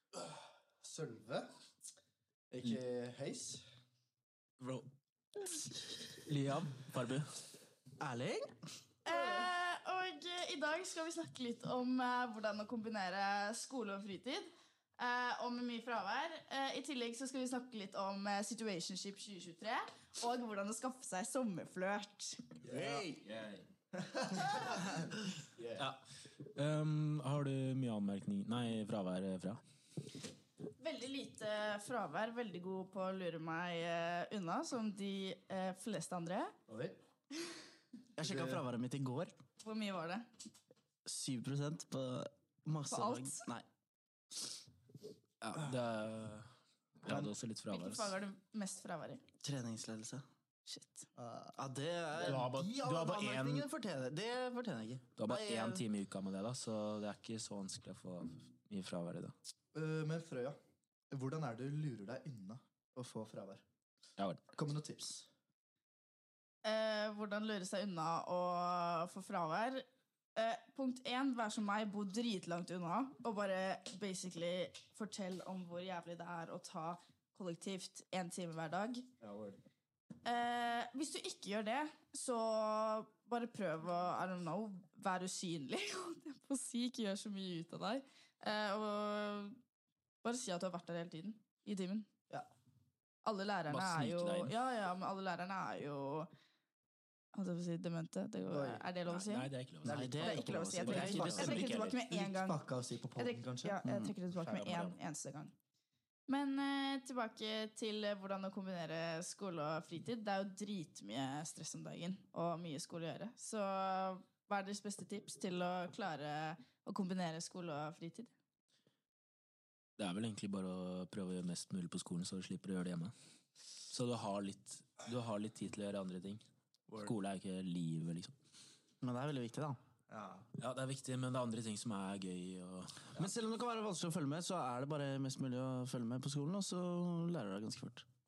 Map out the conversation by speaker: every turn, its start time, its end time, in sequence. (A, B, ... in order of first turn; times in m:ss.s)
0:00.1-0:01.5 A
0:02.5-0:03.6 A
0:06.3-0:07.3 B
0:06.3-0:06.7 C
0:08.0-0:08.5 C
0:09.0-0:22.5 D
0:22.6-0:23.0 A
0:22.7-0:23.4 C
0:24.0-0:25.0 A
0:25.6-0:25.8 A
0:25.8-0:26.0 B
0:26.6-0:29.6 B
0:30.8-0:36.6 D
0:36.7-0:37.0 A
0:38.2-0:39.4 C
0:38.2-0:38.6 A
0:39.6-0:40.3 D
0:41.0-0:43.6 C
0:42.9-0:43.5 D
0:45.4-0:46.5 B
0:47.0-0:48.1 B
0:47.7-0:49.2 D
0:49.4-0:50.2 C
0:50.7-0:51.1 D
0:51.2-0:51.6 A
0:51.6-0:55.8 C
0:52.2-0:53.7 B
0:52.2-0:52.6 A
0:55.2-0:59.3 B
0:59.7-1:00.6 A
1:01.1-1:03.6 A
1:04.2-1:04.4 B
1:04.5-1:05.3 A
1:06.6-1:19.1 D
1:19.2-1:19.6 A
1:20.2-1:29.6 D
1:30.2-1:32.1 D
1:33.2-1:36.3 D
1:33.7-1:34.5 B
1:37.3-1:39.5 D
1:38.5-1:38.9 A
1:39.1-1:40.1 B
1:39.8-1:43.8 A
1:39.9-1:41.6 C
1:40.1-1:42.6 D
1:41.4-1:42.0 B
1:43.2-1:45.5 D
1:43.8-1:44.1 C
1:44.4-1:45.0 B
1:46.3-1:58.3 D
2:00.0-2:03.1 B
2:03.9-2:06.4 B
2:06.9-2:07.1 A
2:07.0-2:08.3 B
2:09.0-2:09.8 C
2:10.1-2:10.5 A
2:10.6-2:13.2 B
2:13.2-2:18.1 C